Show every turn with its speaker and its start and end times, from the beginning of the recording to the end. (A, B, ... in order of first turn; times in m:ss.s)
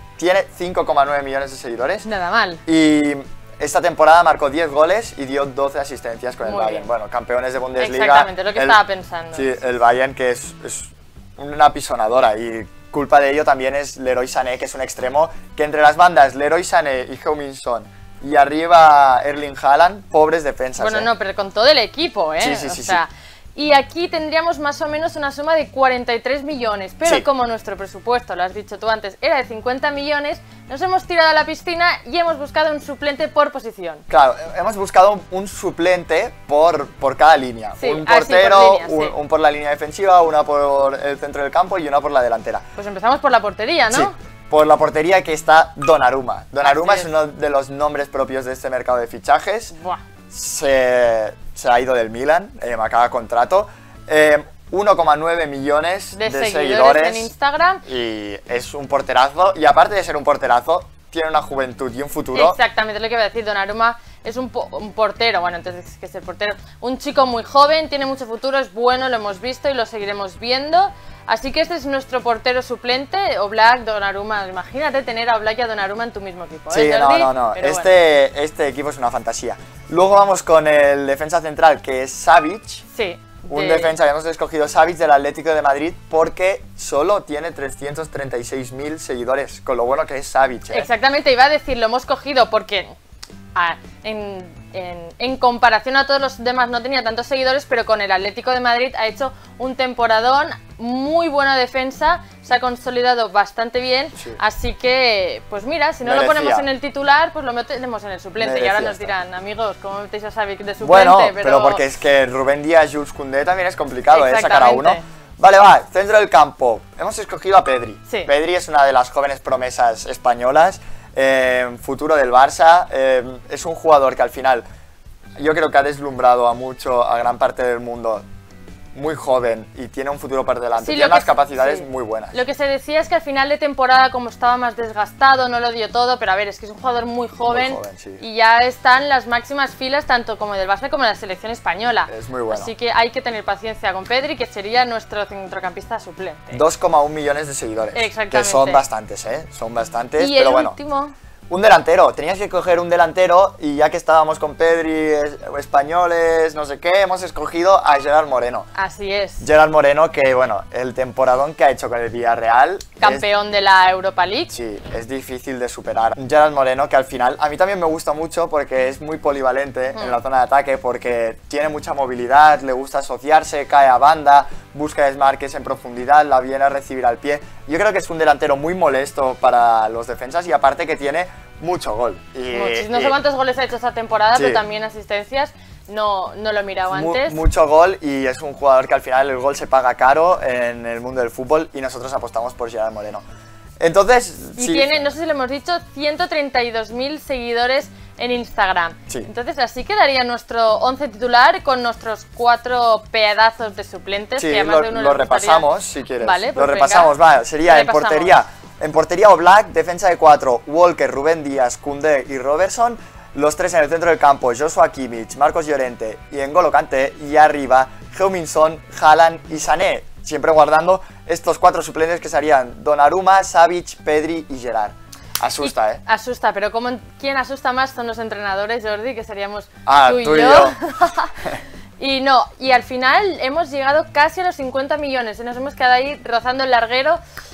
0:00.2-0:02.1 A
0:02.0-0:02.6 B
0:02.7-0:08.8 A
0:06.4-0:06.9 B
0:07.8-0:09.5 B
0:09.3-0:21.1 A
0:20.8-0:34.0 B
0:22.4-0:23.0 A
0:34.1-0:42.6 A
0:37.8-0:39.2 B
0:42.8-0:44.1 B
0:43.9-0:49.7 A
0:46.6-0:47.1 B
0:49.7-0:50.0 B
0:50.3-0:57.3 A
0:56.2-0:57.8 B
0:57.8-1:02.6 A
1:02.3-1:17.9 B
1:16.7-1:22.8 A
1:22.9-1:24.0 B
1:23.5-1:30.9 A
1:30.7-1:33.0 B
1:33.6-1:51.8 B
1:46.0-1:46.7 A
1:48.4-1:49.1 A
1:50.8-2:04.6 A
1:54.1-1:55.0 B
2:05.4-2:08.2 A
2:08.9-2:12.4 A
2:10.8-2:26.6 B
2:17.5-2:18.2 A
2:22.1-2:22.7 A
2:26.5-2:30.8 A
2:27.9-2:28.8 B
2:30.2-2:31.1 B
2:31.5-2:38.7 A
2:38.8-2:39.5 B
2:39.4-2:43.2 A
2:43.0-2:44.5 B
2:44.5-3:03.2 A
2:49.9-2:50.2 B
3:02.5-3:07.4 B
3:04.3-3:04.6 A
3:06.9-3:13.2 A
3:13.8-3:15.0 A
3:14.6-3:25.7 B
3:24.4-3:46.0 A
3:26.2-3:28.4 B
3:45.6-3:51.3 B
3:49.9-3:50.8 A
3:52.0-3:57.2 B